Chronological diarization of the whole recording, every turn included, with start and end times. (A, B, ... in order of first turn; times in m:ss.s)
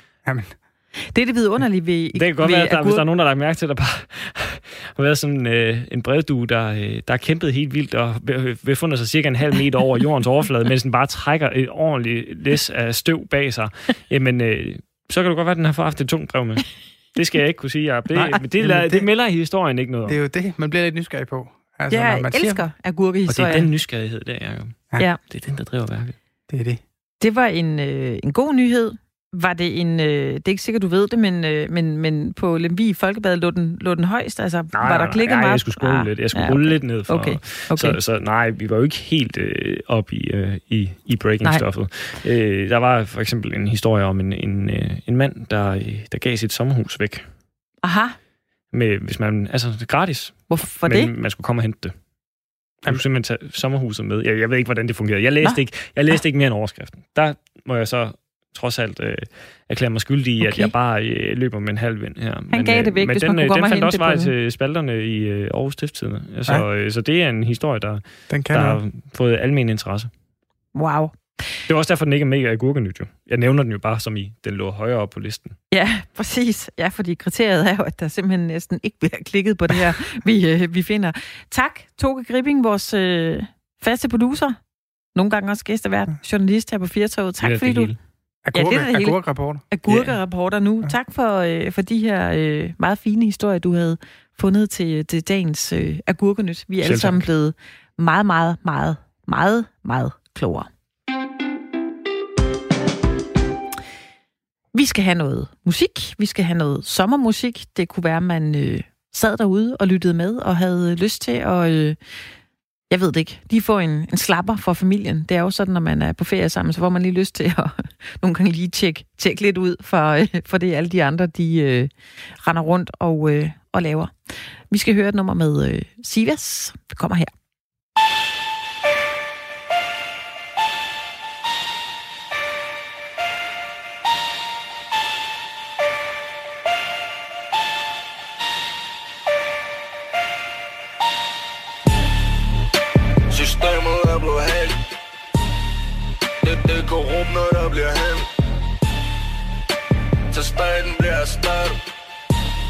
0:00.2-0:00.5 A
0:01.1-0:03.0 B
0:02.1-0:20.2 C
0:18.1-0:19.0 A
0:20.0-0:22.7 A
0:21.9-0:23.7 B
0:23.3-0:26.1 C
0:26.5-0:26.8 A
0:27.2-0:38.0 B
0:34.7-0:47.2 C
0:47.8-0:48.1 B
0:48.7-0:51.9 C
0:50.5-0:51.1 B
0:52.8-1:10.1 C
0:55.4-0:56.2 B
1:00.4-1:00.7 B
1:02.5-1:04.3 B
1:08.3-1:08.8 A
1:10.7-1:11.1 B
1:11.7-1:15.6 C
1:15.7-1:24.6 B
1:25.1-1:27.9 B
1:27.4-1:28.0 C
1:28.4-1:30.1 A
1:28.5-1:40.7 B
1:36.8-1:37.2 C
1:44.7-1:52.0 B
1:52.9-2:01.9 B
2:02.4-2:04.1 B
2:04.7-2:07.3 B
2:23.3-2:24.8 D
2:26.4-2:28.3 D
2:30.3-2:31.8 D